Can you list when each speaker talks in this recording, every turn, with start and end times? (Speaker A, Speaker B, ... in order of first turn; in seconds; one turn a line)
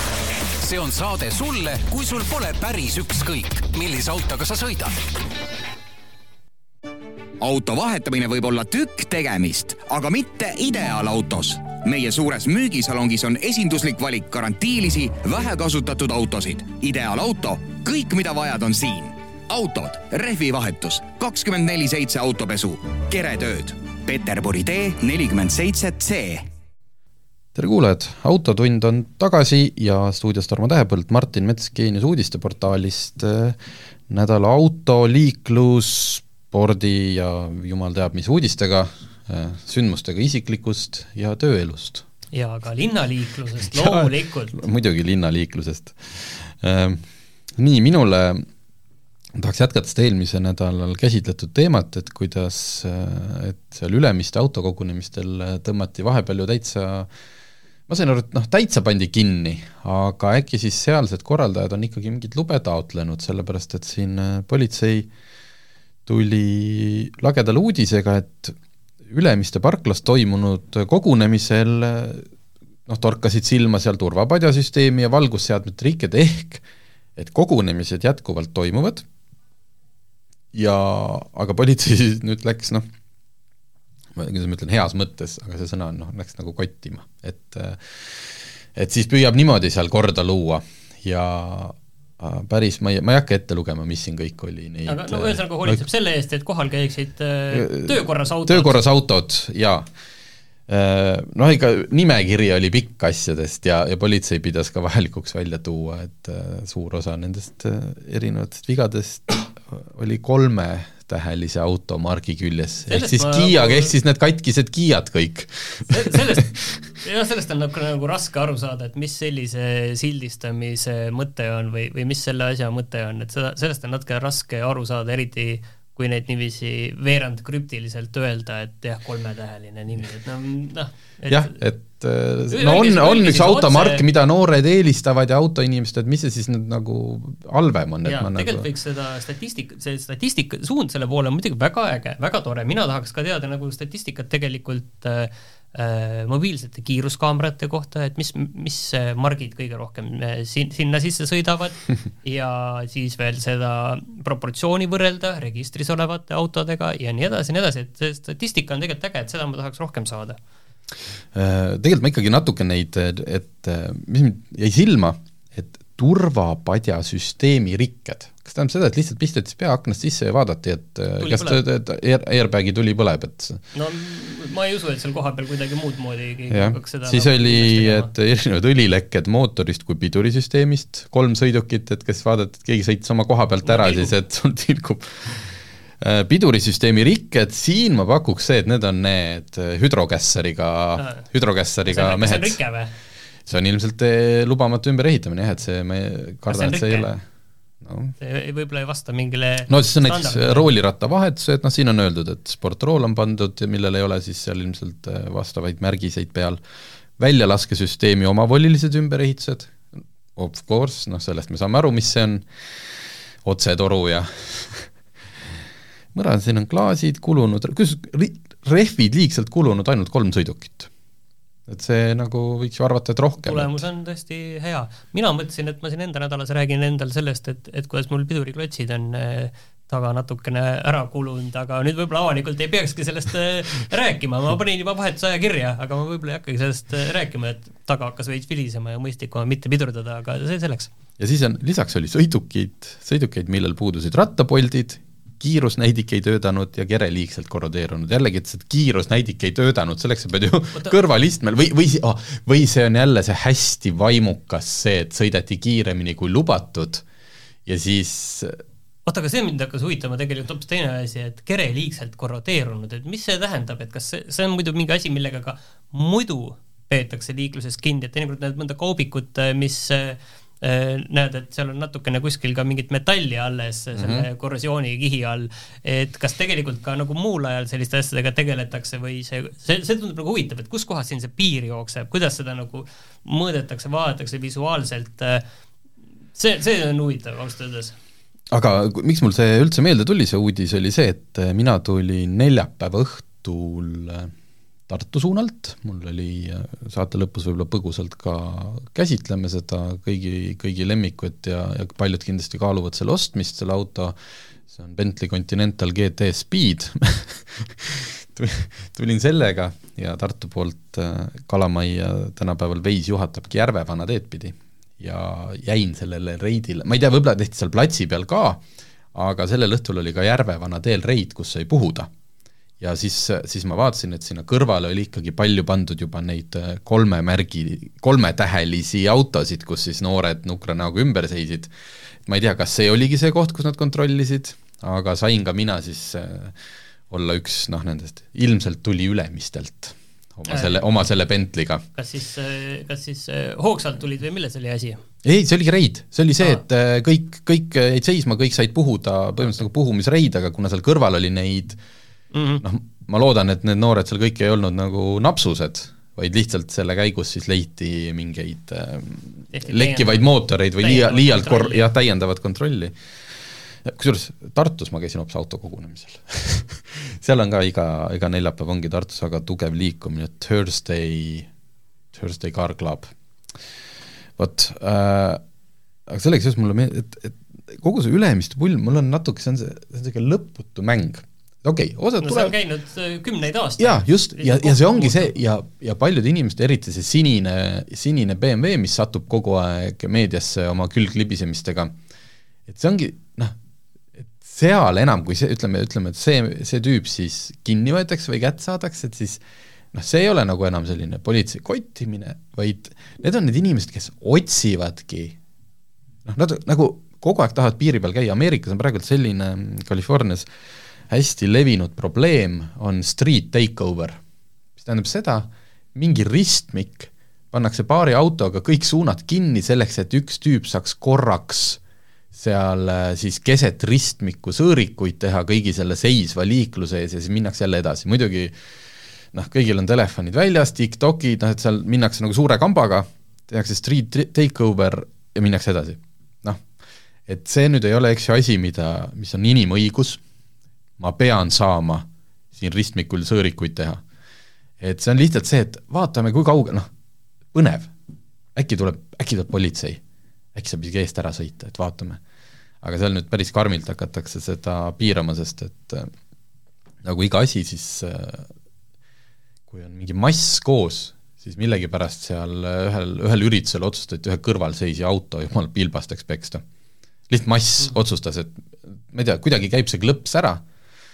Speaker A: 0.6-5.0
Speaker B: 7.4-26.4
Speaker C: 27.6-33.6
Speaker C: 34.1-42.1
Speaker D: 42.3-44.6
Speaker C: 43.7-47.0
Speaker C: 47.6-48.5
Speaker C: 49.4-57.1
Speaker C: 57.9-65.1
Speaker C: 66.1-72.3
Speaker C: 72.9-76.6
Speaker C: 77.2-79.0
Speaker C: 80.5-82.9
Speaker C: 84.2-95.8
Speaker D: 94.9-98.8
Speaker C: 97.5-99.9
Speaker C: 100.7-116.5
Speaker D: 112.9-113.9
Speaker D: 115.9-131.5
Speaker C: 131.3-138.7
Speaker D: 132.5-134.0
Speaker D: 138.1-160.4
Speaker C: 161.3-173.6
Speaker D: 171.2-171.6
Speaker D: 173.7-178.1
Speaker C: 176.5-192.6
Speaker D: 183.7-184.1
Speaker D: 191.0-191.2
Speaker D: 191.9-192.9
Speaker C: 193.5-197.2
Speaker D: 196.5-197.1
Speaker C: 197.8-198.2
Speaker D: 198.2-200.7
Speaker C: 199.7-206.6
Speaker C: 207.2-212.5
Speaker C: 213.4-214.9
Speaker C: 216.1-220.9
Speaker C: 221.7-223.8
Speaker D: 223.4-240.9
Speaker C: 241.2-257.0
Speaker C: 257.7-258.6
Speaker D: 259.1-285.4
Speaker C: 273.9-274.3
Speaker D: 286.4-288.0
Speaker C: 288.5-294.3
Speaker C: 294.9-304.2
Speaker C: 304.7-318.6
Speaker C: 319.1-322.1
Speaker C: 322.8-331.7
Speaker C: 332.2-336.6
Speaker C: 337.1-341.8
Speaker D: 340.5-340.8
Speaker D: 341.9-345.0
Speaker C: 345.2-351.8
Speaker D: 352.3-352.6
Speaker C: 352.6-362.9
Speaker D: 359.5-360.2
Speaker D: 360.8-361.9
Speaker C: 363.8-371.5
Speaker C: 372.1-373.1
Speaker C: 374.4-375.4
Speaker C: 376.1-382.6
Speaker D: 382.2-385.4
Speaker C: 383.8-391.9
Speaker C: 392.7-393.5
Speaker C: 394.2-399.4
Speaker C: 399.9-405.4
Speaker C: 406.3-410.5
Speaker C: 411.1-414.2
Speaker C: 414.8-421.8
Speaker C: 422.3-428.6
Speaker C: 429.3-436.6
Speaker C: 437.3-440.2
Speaker C: 441.0-444.0
Speaker C: 444.8-446.9
Speaker C: 447.5-447.9
Speaker C: 448.6-450.0
Speaker C: 450.6-452.2
Speaker C: 452.8-456.1
Speaker C: 457.0-458.5
Speaker C: 459.7-466.6
Speaker C: 467.3-470.6